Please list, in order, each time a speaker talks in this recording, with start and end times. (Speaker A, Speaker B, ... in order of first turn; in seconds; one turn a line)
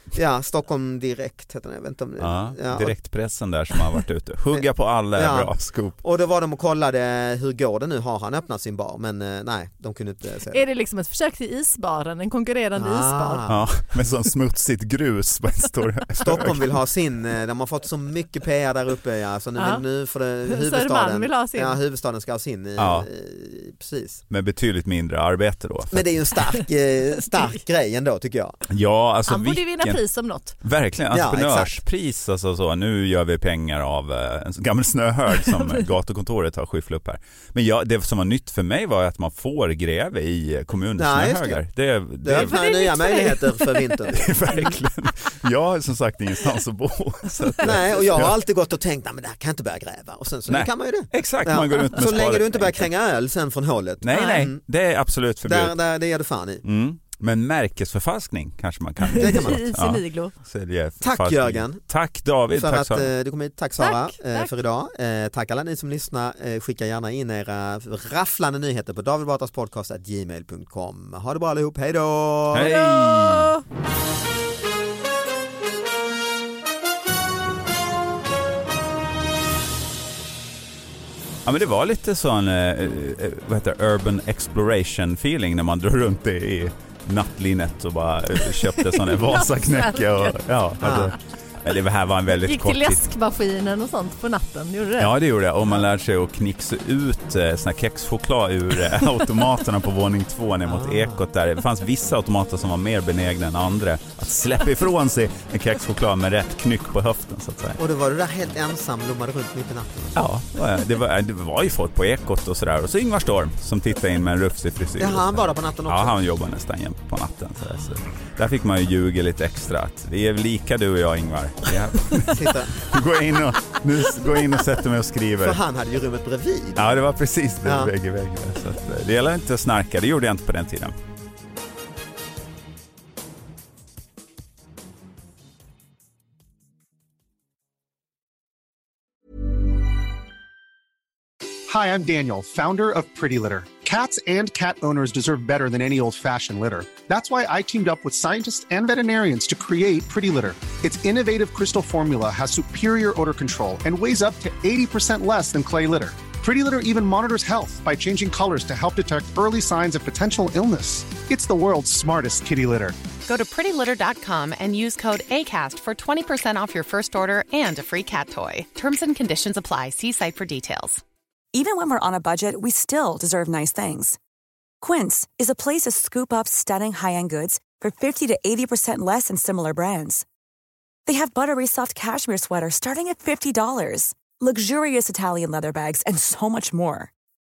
Speaker A: 0.1-2.9
Speaker B: 2.2-6.0
Speaker A: 4.5-10.7
Speaker C: 10.5-13.4
Speaker A: 12.8-13.7
Speaker B: 13.5-16.7
Speaker A: 16.2-24.2
Speaker C: 19.6-19.8
Speaker C: 20.5-21.8
Speaker B: 22.8-23.1
Speaker B: 24.3-26.2
Speaker A: 25.9-28.6
Speaker B: 28.7-30.0
Speaker C: 29.3-30.6
Speaker B: 30.6-42.6
Speaker A: 31.1-31.8
Speaker A: 41.0-41.6
Speaker A: 42.2-44.7
Speaker C: 42.3-44.7
Speaker B: 44.1-48.3
Speaker A: 47.6-54.6
Speaker B: 50.5-52.9
Speaker B: 54.0-55.8
Speaker C: 54.1-54.5
Speaker A: 55.4-56.6
Speaker B: 56.6-63.1
Speaker C: 59.1-60.3
Speaker A: 59.2-59.6
Speaker A: 61.0-61.8
Speaker A: 62.5-72.8
Speaker C: 63.8-64.5
Speaker B: 72.5-73.6
Speaker C: 72.7-73.6
Speaker B: 81.5-93.0
Speaker C: 88.8-91.1
Speaker A: 90.8-91.1
Speaker C: 92.4-95.1
Speaker B: 95.0-107.8
Speaker A: 100.7-101.2
Speaker A: 107.8-110.3
Speaker B: 110.2-125.6
Speaker A: 115.0-116.2
Speaker A: 122.3-122.8
Speaker A: 125.4-126.8
Speaker B: 126.8-130.9
Speaker A: 127.6-127.9
Speaker D: 141.7-163.0
Speaker E: 163.3-171.0
Speaker F: 171.5-174.2
Speaker F: 174.8-180.2
Speaker F: 181.1-187.1